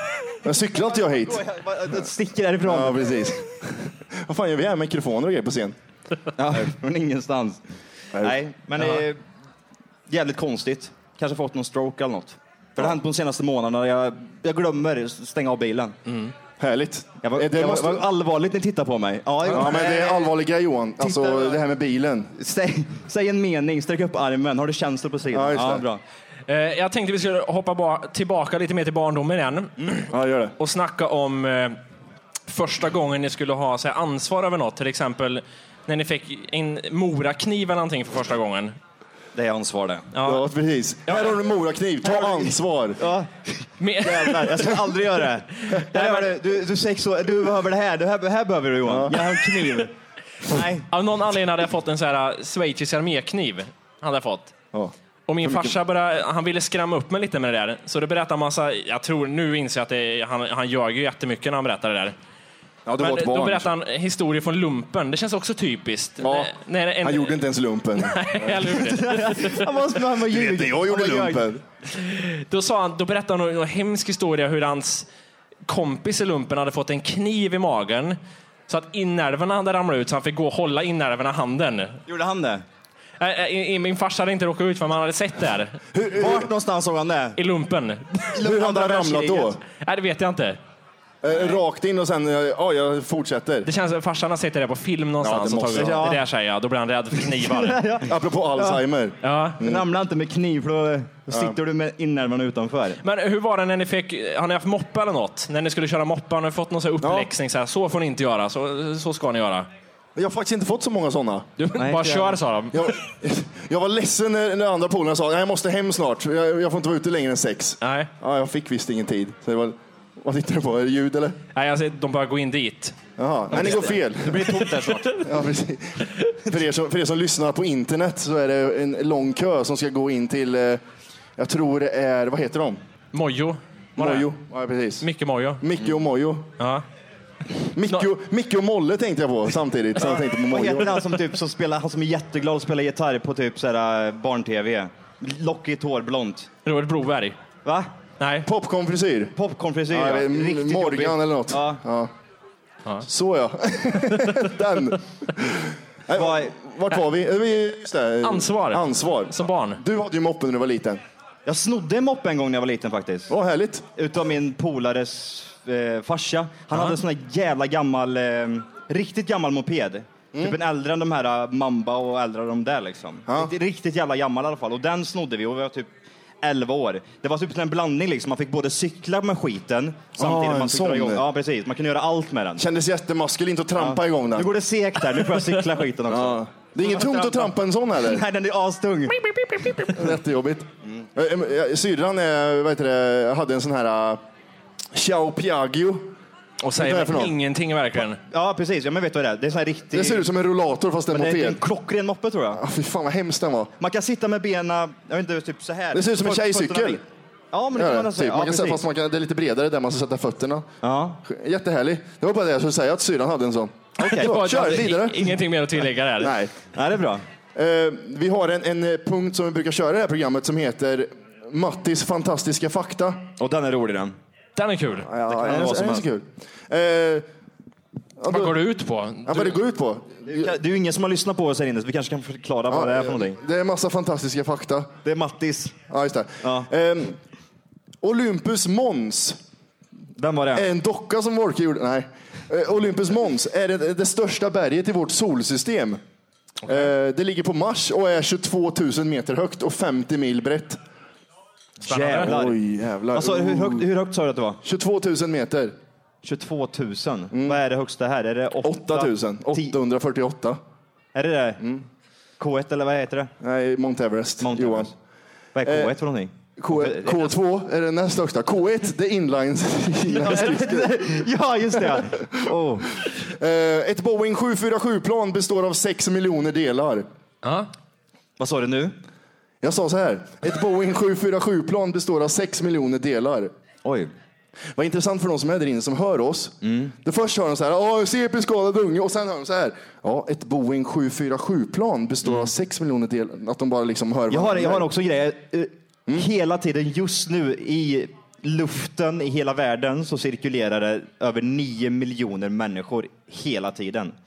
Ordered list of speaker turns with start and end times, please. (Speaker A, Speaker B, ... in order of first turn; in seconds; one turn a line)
Speaker A: 0.4-1.4
Speaker B: 0.8-3.2
Speaker A: 2.6-5.8
Speaker B: 6.4-7.6
Speaker B: 8.2-9.2
Speaker B: 10.1-16.0
Speaker C: 16.1-16.3
Speaker A: 16.6-18.1
Speaker B: 17.2-20.4
Speaker A: 19.5-22.3
Speaker B: 21.0-21.6
Speaker B: 22.4-26.0
Speaker A: 25.3-25.9
Speaker C: 26.5-30.1
Speaker A: 30.1-30.5
Speaker C: 30.6-31.8
Speaker C: 32.5-38.8
Speaker B: 39.4-40.1
Speaker C: 40.1-40.5
Speaker A: 40.2-43.0
Speaker C: 41.1-41.3
Speaker B: 42.2-42.5
Speaker B: 43.0-49.9
Speaker C: 43.8-44.9
Speaker C: 45.7-46.3
Speaker A: 48.9-49.4
Speaker B: 50.5-50.9
Speaker C: 50.9-54.5
Speaker A: 54.7-55.8
Speaker C: 55.3-62.1
Speaker A: 62.9-63.7
Speaker C: 63.0-67.4
Speaker A: 66.2-68.8
Speaker C: 68.0-69.7
Speaker B: 68.8-71.5
Speaker A: 70.2-71.6
Speaker C: 71.9-75.1
Speaker C: 75.7-78.2
Speaker C: 78.7-82.0
Speaker B: 82.1-82.6
Speaker C: 83.2-85.8
Speaker A: 85.9-86.5
Speaker B: 86.1-87.4
Speaker C: 87.4-88.3
Speaker B: 88.3-89.5
Speaker A: 88.4-89.6
Speaker C: 89.8-90.6
Speaker A: 91.2-93.7
Speaker C: 93.7-97.8
Speaker A: 95.2-96.1
Speaker B: 95.7-96.2
Speaker B: 97.2-98.8
Speaker A: 98.0-99.8
Speaker C: 99.2-99.6
Speaker B: 99.6-103.0
Speaker A: 101.3-101.6
Speaker C: 103.0-109.7
Speaker A: 107.0-107.3
Speaker A: 110.2-111.5
Speaker C: 111.6-112.9
Speaker B: 111.8-112.4
Speaker A: 112.7-121.4
Speaker C: 117.8-118.1
Speaker C: 121.5-123.0
Speaker A: 123.2-124.6
Speaker B: 123.5-125.2
Speaker A: 125.2-130.8
Speaker A: 131.4-132.8
Speaker C: 133.1-134.3
Speaker A: 134.0-135.1
Speaker C: 135.0-135.7
Speaker A: 135.6-136.5
Speaker C: 136.6-136.8
Speaker A: 137.7-141.1
Speaker B: 140.0-146.5
Speaker C: 146.7-147.4
Speaker B: 147.6-147.9
Speaker C: 148.2-148.5
Speaker A: 148.4-149.3
Speaker B: 149.3-151.8
Speaker A: 149.9-152.1
Speaker A: 153.0-161.0
Speaker B: 156.1-156.6
Speaker C: 158.2-159.8
Speaker B: 161.5-163.3
Speaker A: 163.3-163.8
Speaker B: 163.9-175.9
Speaker A: 173.3-173.5
Speaker B: 176.4-182.7
Speaker A: 180.2-181.3
Speaker A: 182.6-184.5
Speaker B: 183.8-189.3
Speaker A: 186.1-188.2
Speaker C: 189.6-189.9
Speaker A: 189.9-194.2
Speaker A: 194.9-196.2
Speaker C: 196.6-198.2
Speaker A: 196.8-197.3
Speaker B: 198.3-200.3
Speaker A: 199.9-201.6
Speaker B: 201.1-202.6
Speaker A: 202.6-203.7
Speaker B: 203.8-208.8
Speaker A: 205.9-207.0
Speaker A: 207.7-210.7
Speaker B: 210.8-211.2
Speaker A: 211.2-215.3
Speaker B: 214.0-214.8
Speaker C: 214.1-216.4
Speaker A: 216.2-216.5
Speaker B: 216.7-217.2
Speaker A: 217.6-223.2
Speaker B: 223.4-224.2
Speaker C: 224.6-225.1
Speaker A: 225.0-227.3
Speaker B: 225.3-226.1
Speaker A: 228.2-228.6
Speaker C: 228.3-229.6
Speaker A: 229.3-230.5
Speaker B: 230.2-233.4
Speaker A: 232.7-234.9
Speaker B: 235.0-235.8
Speaker A: 235.9-237.2
Speaker B: 236.4-236.7
Speaker A: 238.0-239.4
Speaker B: 240.2-240.7
Speaker A: 240.6-246.0
Speaker A: 246.7-250.8
Speaker B: 251.8-252.6
Speaker C: 251.8-252.3
Speaker A: 252.2-253.9
Speaker B: 253.1-254.6
Speaker A: 254.6-255.8
Speaker B: 256.2-259.8
Speaker A: 257.3-257.6
Speaker A: 258.6-260.6
Speaker B: 261.1-261.6
Speaker A: 261.6-261.9
Speaker B: 262.4-263.3
Speaker A: 263.4-264.9
Speaker B: 264.4-264.9
Speaker B: 265.6-267.3
Speaker A: 265.6-265.9
Speaker A: 266.6-271.2
Speaker B: 270.1-272.9
Speaker A: 271.8-277.1
Speaker C: 277.4-277.7
Speaker B: 278.4-279.0
Speaker A: 279.6-283.5
Speaker B: 283.9-284.1
Speaker A: 284.8-294.9
Speaker B: 286.6-286.9
Speaker B: 294.3-304.1